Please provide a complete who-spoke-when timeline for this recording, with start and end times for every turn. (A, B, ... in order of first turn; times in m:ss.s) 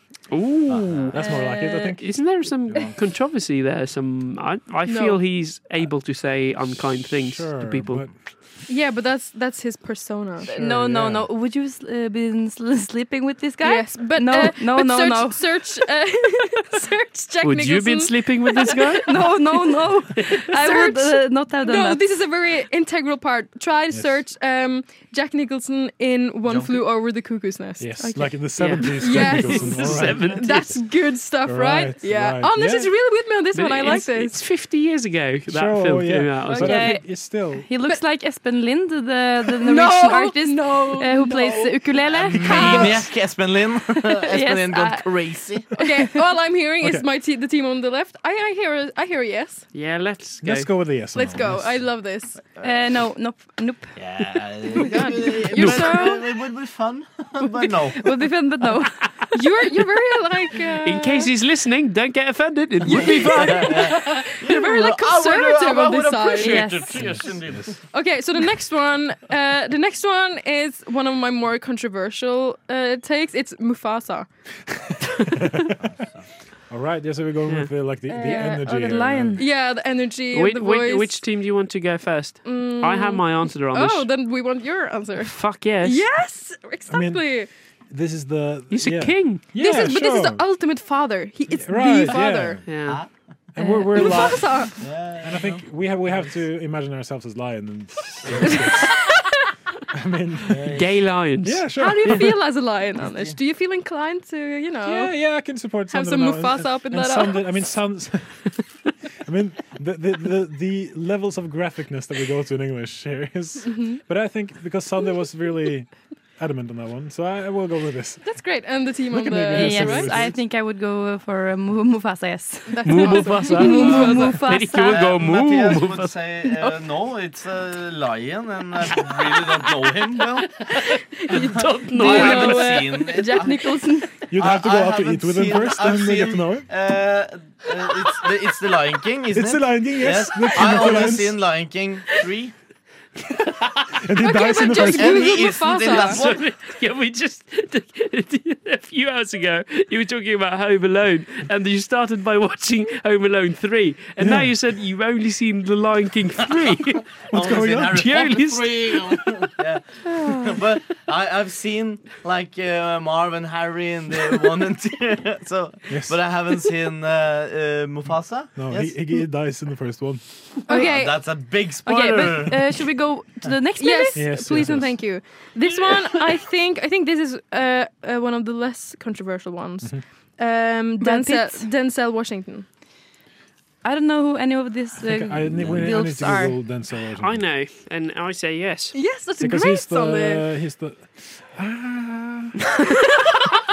0:00.3-0:01.2 A
0:00.7-0:01.1 B
0:01.1-0:02.0 C
0:01.2-0:02.0 D
0:02.0-0:08.0 A
0:04.9-0:05.2 E
0:07.3-0:08.1 C
0:08.7-0:10.5 E
0:10.5-0:11.3 C
0:10.5-0:15.4 D
0:13.6-0:19.1 E
0:17.4-0:19.2 A
0:19.0-0:22.1 D
0:20.3-0:34.4 E
0:26.4-0:26.8 B
0:27.8-0:30.5 C
0:28.6-0:30.8 A
0:31.4-0:32.9 C
0:33.5-0:36.9 A
0:35.5-0:37.7 C
0:36.5-0:43.1 D
0:39.6-0:41.7 E
0:42.1-0:43.0 C
0:42.3-0:43.0 E
0:42.5-0:45.7 B
0:44.2-0:46.2 D
0:45.8-0:49.7 E
0:46.8-0:47.1 C
0:49.7-0:50.7 A
0:50.4-0:51.9 C
0:51.1-0:52.5 E
0:52.6-0:54.0 D
0:54.0-0:58.0 B
0:54.8-0:56.3 E
0:55.6-0:56.0 A
0:57.4-0:59.1 D
0:59.3-1:01.3 E
1:00.8-1:03.9 A
1:02.9-1:06.9 E
1:02.9-1:07.8 B
1:06.4-1:07.1 D
1:06.9-1:07.8 C
1:07.8-1:14.3 E
1:14.7-1:15.9 C
1:16.7-1:19.4 C
1:18.1-1:19.4 D
1:19.4-1:21.2 E
1:20.3-1:24.1 A
1:22.4-1:27.5 E
1:25.2-1:26.0 A
1:26.9-1:27.3 C
1:27.9-1:30.4 C
1:28.7-1:29.4 A
1:29.6-1:32.6 E
1:31.5-1:32.8 C
1:32.6-1:33.0 A
1:33.6-1:39.1 C
1:33.6-1:34.2 D
1:33.9-1:34.8 E
1:34.8-1:36.3 B
1:38.6-1:39.3 E
1:39.9-1:40.8 C
1:40.5-1:40.9 B
1:40.7-1:42.2 A
1:41.4-1:42.4 C
1:41.8-1:45.2 E
1:43.0-1:43.4 B
1:44.8-1:48.6 C
1:45.9-1:47.6 E
1:49.3-1:58.3 C
1:53.6-1:54.0 E
1:58.2-2:00.2 E
1:59.1-2:00.4 C
1:59.2-2:05.0 D
2:02.7-2:04.4 E
2:02.8-2:06.2 A
2:04.9-2:10.6 B
2:11.3-2:12.9 A
2:11.4-2:14.2 E
2:12.0-2:13.7 B
2:14.3-2:16.7 C
2:14.4-2:22.5 B
2:19.3-2:21.4 C
2:23.9-2:25.3 C
2:24.2-2:26.3 E
2:24.8-2:26.4 B
2:25.7-2:37.0 A
2:34.2-2:34.5 C
2:37.3-2:38.0 C
2:37.3-2:49.0 B
2:37.9-2:39.1 A
2:40.2-2:40.6 D
2:45.9-2:46.2 C
2:48.6-2:50.2 C
2:50.7-2:51.2 E
2:50.7-2:52.6 B
2:51.8-2:54.6 D
2:53.8-3:02.7 E
2:54.1-2:55.0 C
3:01.0-3:01.7 D
3:03.8-3:06.6 D
3:05.1-3:07.5 C
3:07.2-3:08.9 A
3:08.9-3:10.4 E
3:09.4-3:12.6 C